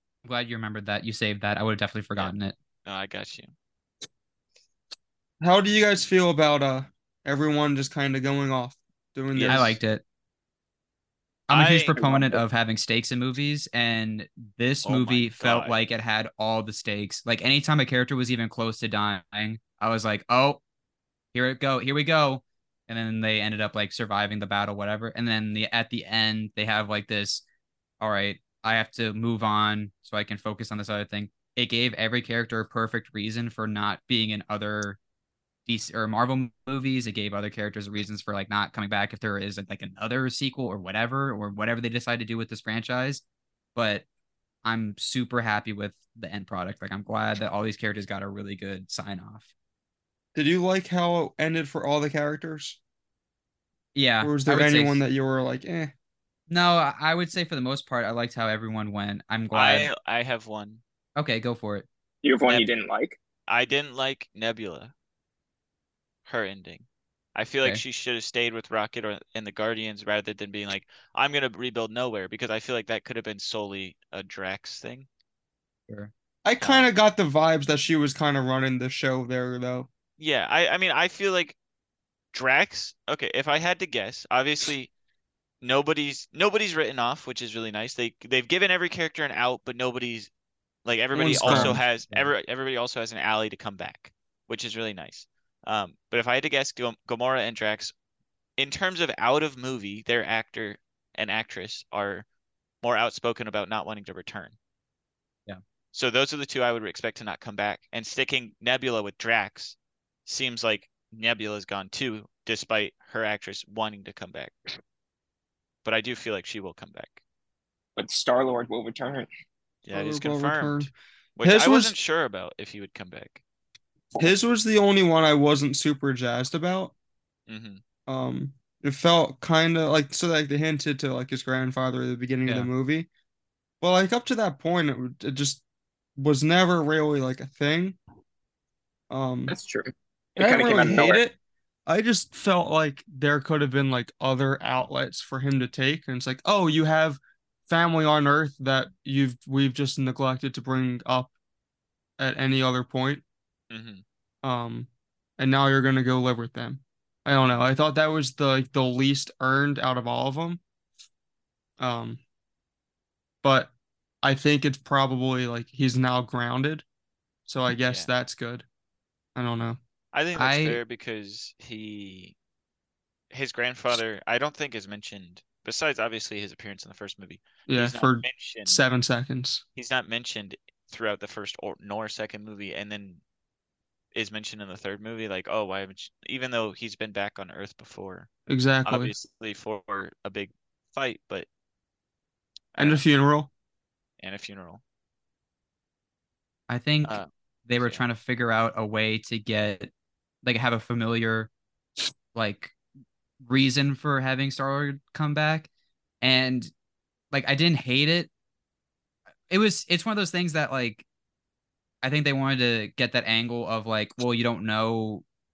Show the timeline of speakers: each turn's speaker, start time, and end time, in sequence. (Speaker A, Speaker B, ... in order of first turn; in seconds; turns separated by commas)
Speaker A: 0.2-2.5, Speaker B: 2.9-3.5, Speaker C: 5.4-9.8, Speaker B: 9.3-9.8, Speaker A: 9.5-10.0, Speaker A: 11.5-20.6, Speaker B: 11.5-12.1, Speaker D: 12.0-12.4, Speaker B: 14.8-15.8, Speaker A: 21.3-27.4, Speaker A: 28.0-35.0, Speaker A: 35.7-43.2, Speaker A: 43.8-44.0, Speaker A: 44.6-49.5, Speaker C: 50.4-52.8, Speaker A: 54.0-55.0, Speaker C: 54.2-55.9, Speaker A: 56.5-59.9, Speaker B: 59.5-60.8, Speaker A: 61.2-61.9, Speaker D: 62.2-63.2, Speaker B: 63.5-64.9, Speaker B: 66.3-75.1, Speaker A: 75.9-76.9, Speaker C: 76.5-79.9, Speaker B: 80.2-81.6, Speaker B: 82.3-84.9, Speaker B: 85.6-90.3, Speaker B: 90.8-97.9, Speaker C: 91.2-91.8, Speaker A: 91.2-92.3, Speaker B: 98.6-102.3, Speaker B: 102.8-104.5, Speaker B: 105.9-114.5, Speaker B: 115.8-117.2, Speaker D: 118.0-119.3, Speaker B: 119.8-123.4, Speaker C: 119.9-120.9, Speaker C: 121.4-122.0, Speaker C: 124.2-126.9, Speaker B: 127.5-127.8, Speaker C: 128.1-133.1, Speaker A: 132.5-132.7, Speaker C: 133.8-135.6, Speaker C: 136.2-138.0, Speaker C: 139.1-139.6, Speaker D: 139.5-141.2, Speaker C: 140.4-151.3, Speaker C: 152.2-153.2, Speaker B: 153.7-154.0, Speaker C: 154.4-160.6, Speaker C: 161.8-162.2, Speaker C: 163.4-163.7, Speaker C: 164.2-166.8, Speaker C: 167.5-168.7, Speaker B: 167.8-168.1, Speaker C: 169.4-169.8, Speaker B: 170.1-172.3, Speaker A: 170.4-170.8, Speaker B: 173.3-178.8, Speaker C: 177.7-179.6, Speaker B: 179.8-183.2, Speaker B: 184.1-188.3, Speaker C: 188.5-189.1, Speaker B: 188.8-191.5, Speaker B: 192.8-193.0, Speaker C: 192.8-193.5, Speaker B: 194.2-194.8, Speaker A: 196.7-199.9, Speaker A: 200.4-201.5, Speaker A: 202.3-202.7, Speaker A: 203.4-205.7, Speaker A: 206.2-206.7, Speaker A: 207.3-208.3, Speaker A: 209.5-211.1, Speaker A: 212.0-215.2